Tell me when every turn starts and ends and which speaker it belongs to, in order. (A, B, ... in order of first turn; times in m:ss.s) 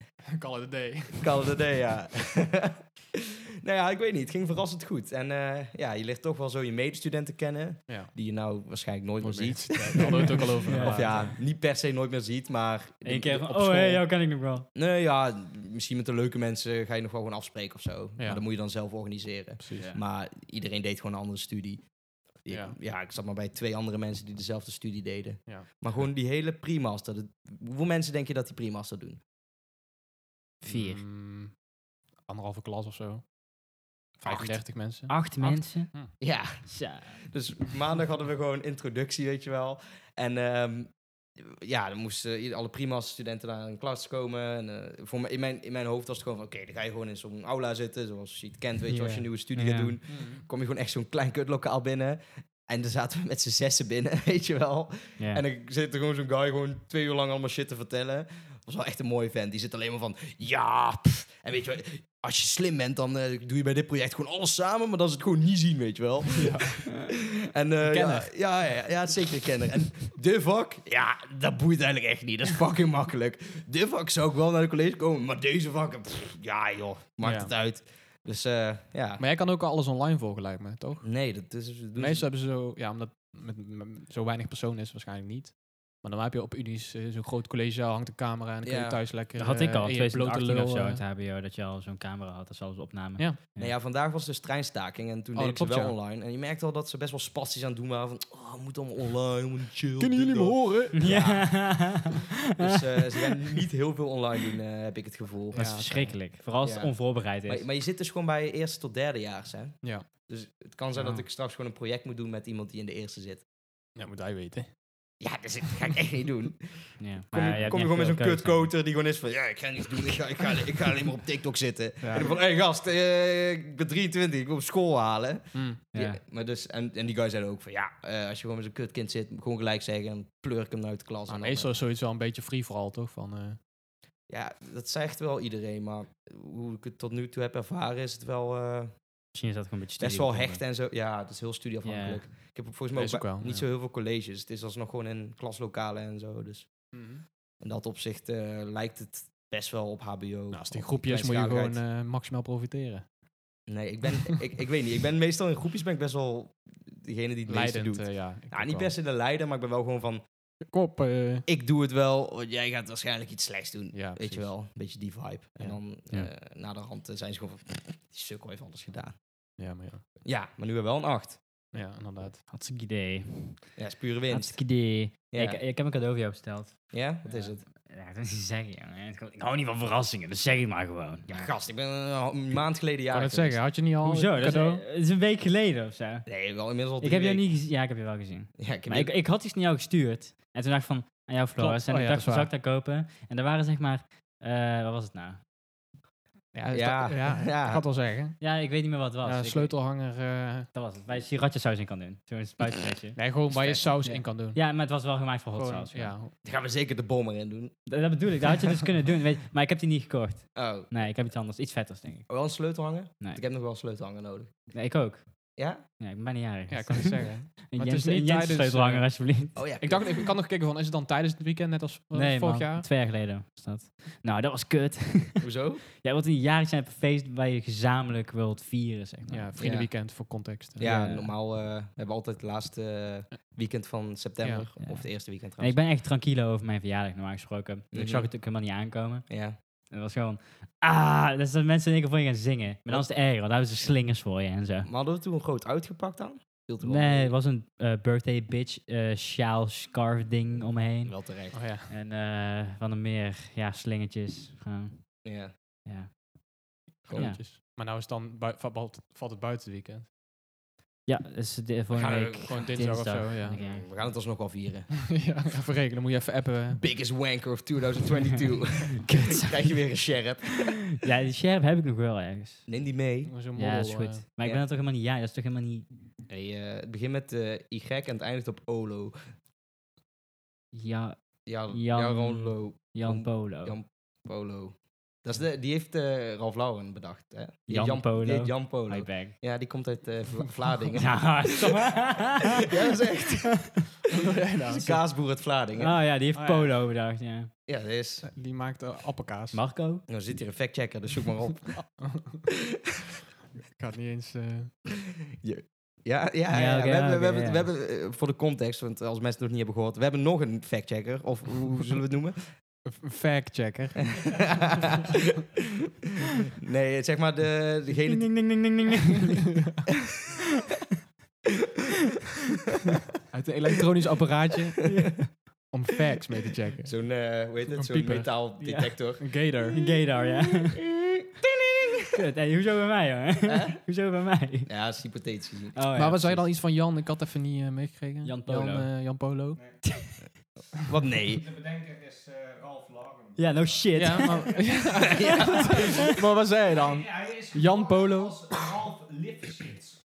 0:00.3-0:01.5 A
0:01.2-0:14.0 B
0:07.9-0:08.1 A
0:09.2-0:11.3 A
0:09.9-0:11.3 C
0:13.0-0:14.7 C
0:14.8-0:21.8 B
0:19.6-0:19.9 A
0:22.4-0:29.2 B
0:22.5-0:22.7 A
0:25.5-0:26.1 A
0:30.6-0:31.0 C
0:30.7-0:31.5 A
0:32.2-0:33.2 A
0:34.2-0:36.1 A
0:34.2-0:34.6 B
0:35.1-0:37.2 C
0:36.2-1:19.2 B
0:48.9-0:50.0 C
0:50.1-0:50.4 A
1:06.4-1:06.8 A
1:07.9-1:08.3 A
1:17.2-1:17.5 A
1:19.2-1:21.1 A
1:21.0-1:22.3 B
1:22.0-1:31.0 A
1:28.6-1:29.0 B
1:29.4-1:33.8 C
1:33.6-1:42.0 B
1:35.4-1:36.0 A
1:40.0-1:41.0 A
1:40.9-1:43.3 C
1:42.6-1:45.8 B
1:45.5-1:46.1 A
1:45.5-1:47.6 C
1:46.6-1:53.4 B
1:50.9-1:51.2 C
1:54.0-1:54.8 A
1:55.2-2:11.7 B
1:57.0-1:58.7 C
2:02.0-2:02.3 A
2:05.5-2:05.8 A
2:05.9-2:06.2 C
2:11.3-2:13.6 A
2:14.3-2:18.9 B
2:19.3-2:20.6 C
2:20.0-2:26.9 B
2:21.8-2:22.2 C
2:23.0-2:23.6 A
2:26.9-2:27.2 A
2:27.6-2:31.8 B
2:30.5-2:33.0 A
2:33.7-2:40.2 B
2:37.5-2:38.9 A
2:40.6-2:41.4 A
2:41.5-2:49.2 B
2:43.9-2:44.6 A
2:49.6-2:50.1 A
2:50.2-2:51.4 B
2:51.7-2:52.4 A
2:52.5-2:53.8 C
2:53.8-2:55.6 B
2:54.3-3:01.5 C
2:56.9-2:57.6 B
3:01.3-3:03.6 B
3:03.1-3:04.8 A
3:04.0-3:06.3 C
3:06.3-3:07.4 B
3:07.0-3:15.4 C
3:08.6-3:09.1 B
3:11.6-3:12.5 A
3:16.5-3:18.5 A
3:16.7-3:17.8 B
3:18.4-3:19.7 C
3:19.2-3:20.7 A
3:20.7-3:23.2 C
3:23.2-3:24.6 A
3:23.5-3:24.1 B
3:24.0-3:26.2 C
3:25.5-3:26.3 A
3:26.4-3:27.8 B
3:27.9-3:32.3 C
3:30.6-3:31.0 B
3:32.3-3:34.5 B
3:34.7-3:39.6 C
3:35.6-3:35.8 B
3:36.7-3:42.9 A
3:39.6-3:40.3 B
3:42.1-3:49.5 C
3:45.4-3:45.8 B
3:49.3-3:50.9 A
3:49.6-3:49.9 B
3:50.8-3:55.8 B
3:50.8-3:51.3 C
3:54.4-3:54.7 A
3:54.8-3:59.3 C
3:57.9-3:58.3 B
3:59.3-3:59.6 B
3:59.9-4:04.9 C
4:04.9-4:07.3 B
4:06.8-4:15.2 C
4:11.0-4:11.6 B
4:11.5-4:11.9 A
4:15.2-4:15.5 B
4:15.8-4:16.3 C
4:17.0-4:20.1 A
4:17.1-4:17.4 B
4:17.1-4:17.4 C
4:21.1-4:23.9 C
4:21.9-4:22.6 B
4:22.5-4:23.6 A
4:23.5-4:24.9 B
4:25.1-4:26.8 A
4:26.8-4:30.8 B
4:29.0-4:29.9 C
4:31.0-4:32.7 C
4:32.7-4:33.3 B
4:33.3-4:34.2 A
4:33.6-4:35.9 C
4:36.3-4:39.2 B
4:40.7-4:41.2 C
4:41.5-4:52.1 B
4:41.7-4:43.8 C
4:47.7-4:49.4 C
4:51.0-4:52.6 C
4:52.6-4:53.8 B
4:54.1-4:55.0 A
4:54.7-4:56.0 B
4:55.8-4:57.5 C
4:56.4-4:56.7 A
4:57.7-4:58.3 B
4:58.3-4:59.6 A
4:59.5-5:00.0 C
5:00.1-5:01.8 B
5:02.1-5:02.4 A
5:03.7-5:04.8 A
5:05.4-5:12.5 B
5:06.5-5:07.7 C
5:12.8-5:14.5 A
5:14.1-5:15.6 B
5:16.5-5:18.5 B
5:18.1-5:19.5 C
5:23.3-5:27.0 A
5:24.9-5:25.3 C
5:26.8-5:29.2 B
5:27.7-5:28.4 A
5:28.6-5:30.8 C
5:29.2-5:29.8 A
5:30.8-5:32.1 B
5:32.1-5:34.7 C
5:33.5-5:33.8 B
5:34.7-5:36.4 B
5:35.8-5:36.4 C
5:36.0-5:39.6 A
5:38.2-5:38.9 C
5:39.8-5:40.2 C
5:40.9-5:41.5 B
5:41.6-5:43.4 D
5:43.4-5:44.6 C
5:44.0-5:48.8 A
5:45.1-5:45.7 B
5:47.2-5:50.0 D